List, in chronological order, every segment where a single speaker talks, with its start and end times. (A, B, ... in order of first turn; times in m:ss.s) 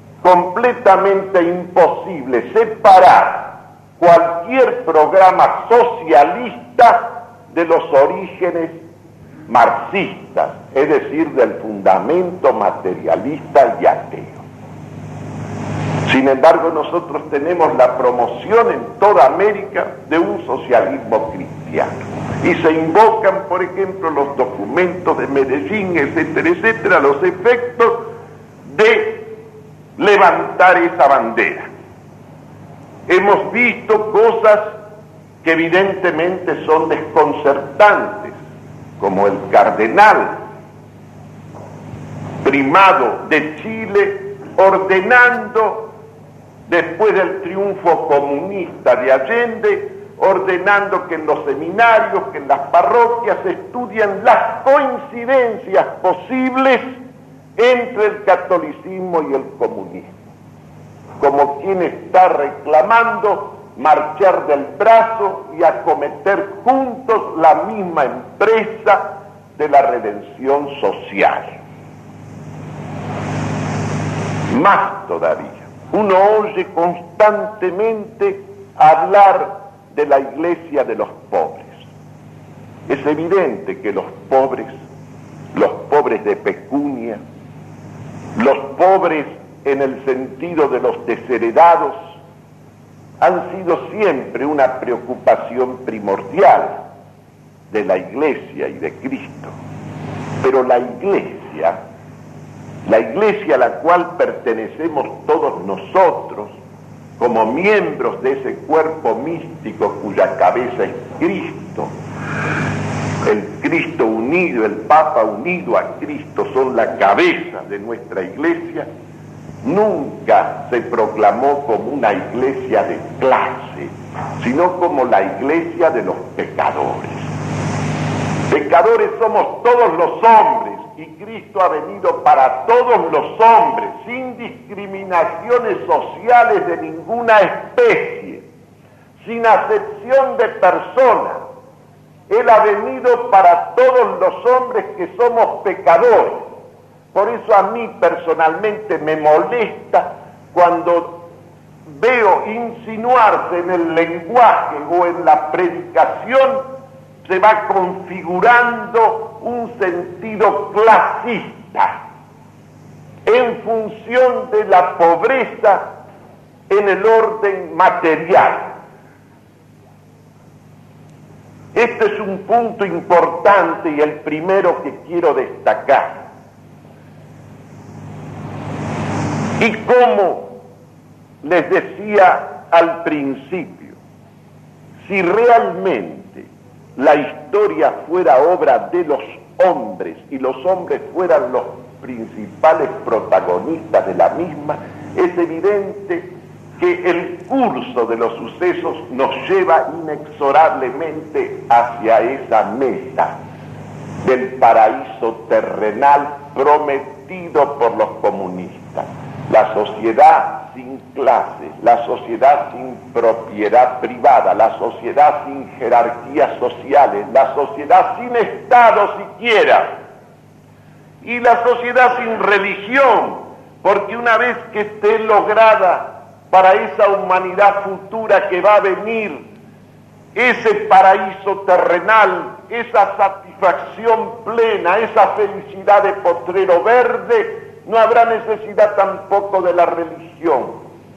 0:00.2-0:08.8 A
0:09.5-0:14.4 A
0:16.1-0:28.1 A
0:28.7-0:29.4 A
0:30.0-0:31.7 A
0:33.1-0:34.8 A
0:35.4-0:38.4 A
0:39.0-0:40.4 A
0:42.4-0:45.9 A
0:46.7-0:57.0 A
0:57.6-1:00.2 A
1:01.2-1:11.6 A
1:14.5-1:21.9 A
1:22.9-1:24.8 A
1:25.5-1:27.2 A
1:28.4-1:32.0 A
1:33.2-1:36.8 A
1:37.7-1:39.5 A
1:40.4-1:41.8 A
1:42.9-1:46.6 A
1:47.2-1:51.9 A
1:53.2-1:58.9 A
1:59.6-2:07.3 A
2:08.5-2:18.4 A
2:19.2-2:21.4 A
2:22.3-2:26.6 A
2:27.1-2:31.3 A
2:31.9-2:36.7 A
2:37.2-2:42.0 A
2:43.2-2:46.0 A
2:46.7-2:48.8 A
2:51.8-2:56.2 A
2:59.6-3:00.6 A
3:01.4-3:04.0 A
3:05.0-3:23.4 A
3:24.2-3:40.0 A
3:41.2-3:49.5 A
3:50.4-4:00.8 A